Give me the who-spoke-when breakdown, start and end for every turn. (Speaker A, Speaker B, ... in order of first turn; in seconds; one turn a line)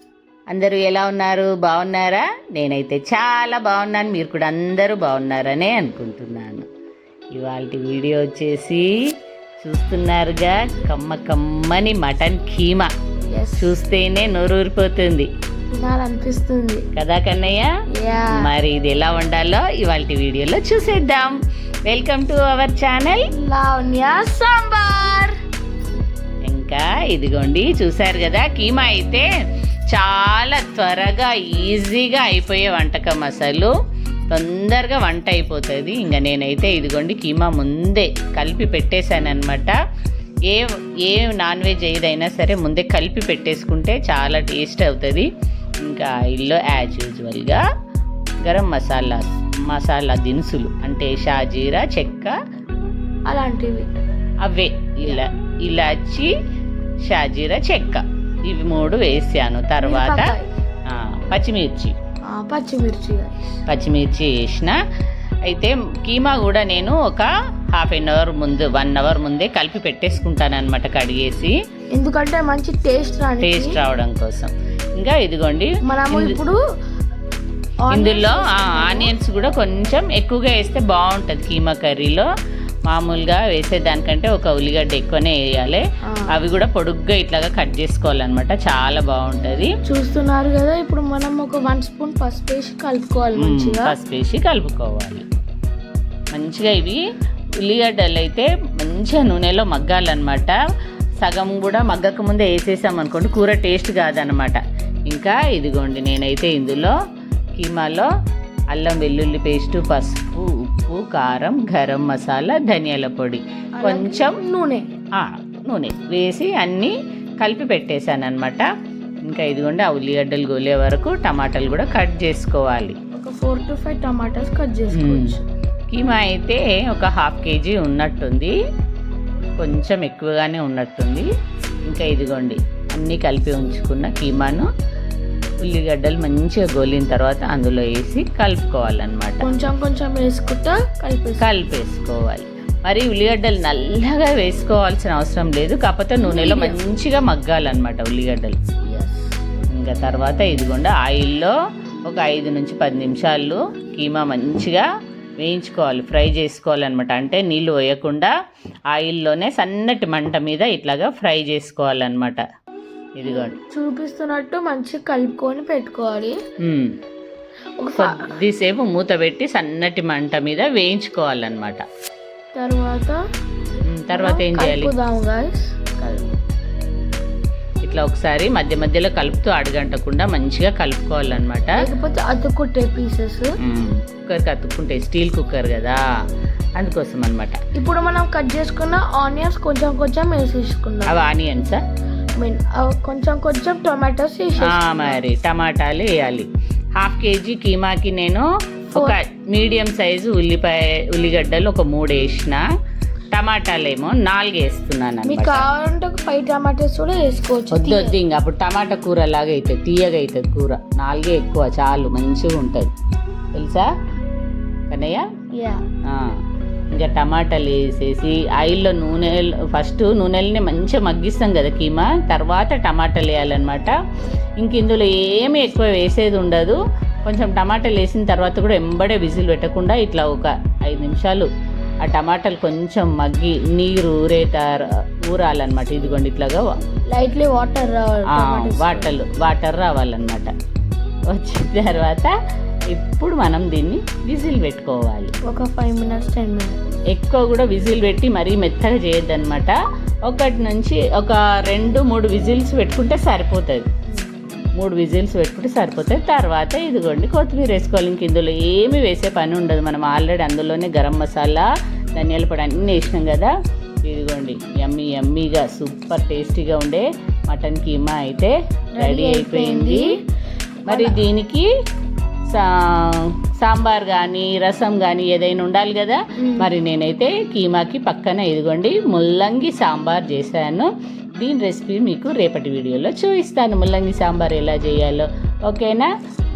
Speaker A: 0.5-6.7
Speaker A: 7.4-8.9
Speaker A: 9.6-12.9
Speaker B: 13.3-13.7
Speaker A: 13.6-15.3
Speaker B: 15.7-16.9
Speaker A: 16.9-17.7
Speaker B: 18.0-18.5
Speaker A: 18.3-21.4
Speaker A: 21.9-23.2
Speaker B: 23.4-25.3
Speaker A: 26.5-29.3
Speaker A: 29.9-33.7
Speaker A: 34.3-39.8
Speaker A: 40.5-45.3
Speaker A: 45.9-47.6
Speaker A: 48.5-52.4
Speaker B: 53.3-53.9
Speaker A: 54.4-56.3
Speaker A: 57.1-60.2
Speaker B: 59.8-60.5
Speaker A: 60.9-61.9
Speaker B: 62.3-63.4
Speaker A: 63.7-64.8
Speaker A: 65.5-71.6
Speaker B: 71.9-73.8
Speaker A: 73.4-76.4
Speaker B: 75.8-76.6
Speaker B: 77.9-79.1
Speaker A: 77.9-82.3
Speaker A: 82.9-89.7
Speaker B: 89.8-93.9
Speaker A: 93.4-95.2
Speaker A: 96.3-97.0
Speaker A: 97.7-100.6
Speaker A: 101.2-106.9
Speaker A: 107.6-108.1
Speaker A: 108.7-114.4
Speaker B: 113.8-114.9
Speaker A: 115.2-118.7
Speaker A: 119.3-123.0
Speaker B: 123.2-125.5
Speaker A: 124.9-125.3
Speaker A: 125.9-128.6
Speaker A: 129.6-131.3
Speaker A: 131.9-134.7
Speaker A: 135.6-139.5
Speaker B: 139.4-141.5
Speaker A: 141.4-148.6
Speaker B: 146.2-146.8
Speaker B: 148.8-149.4
Speaker A: 149.8-151.6
Speaker A: 152.1-154.8
Speaker A: 155.4-158.3
Speaker A: 158.9-162.4
Speaker A: 163.2-163.6
Speaker B: 163.2-166.4
Speaker A: 166.6-166.9
Speaker B: 167.8-168.4
Speaker A: 168.0-171.8
Speaker B: 172.6-173.2
Speaker A: 173.9-174.9
Speaker B: 174.1-175.8
Speaker A: 176.0-176.3
Speaker A: 177.8-181.8
Speaker B: 181.7-183.5
Speaker A: 183.6-186.0
Speaker A: 186.8-187.6
Speaker B: 187.8-191.2
Speaker A: 191.1-191.8
Speaker B: 192.4-195.2
Speaker A: 194.6-196.5
Speaker A: 197.0-202.6
Speaker B: 198.9-199.2
Speaker A: 203.3-205.7
Speaker B: 205.2-208.2
Speaker A: 207.7-212.9
Speaker A: 213.6-213.9
Speaker A: 214.9-215.2
Speaker B: 215.6-215.8
Speaker A: 216.9-223.9
Speaker A: 224.6-231.5
Speaker A: 232.0-236.7
Speaker B: 237.1-239.2
Speaker A: 238.3-240.5
Speaker A: 241.3-242.3
Speaker A: 242.9-245.3
Speaker B: 245.5-246.8
Speaker A: 247.1-249.8
Speaker A: 250.3-253.8
Speaker A: 254.8-261.7
Speaker A: 262.2-263.5
Speaker A: 264.1-270.1
Speaker B: 269.0-270.1
Speaker B: 270.9-271.2
Speaker A: 270.9-271.7
Speaker A: 272.5-286.1
Speaker B: 276.4-276.7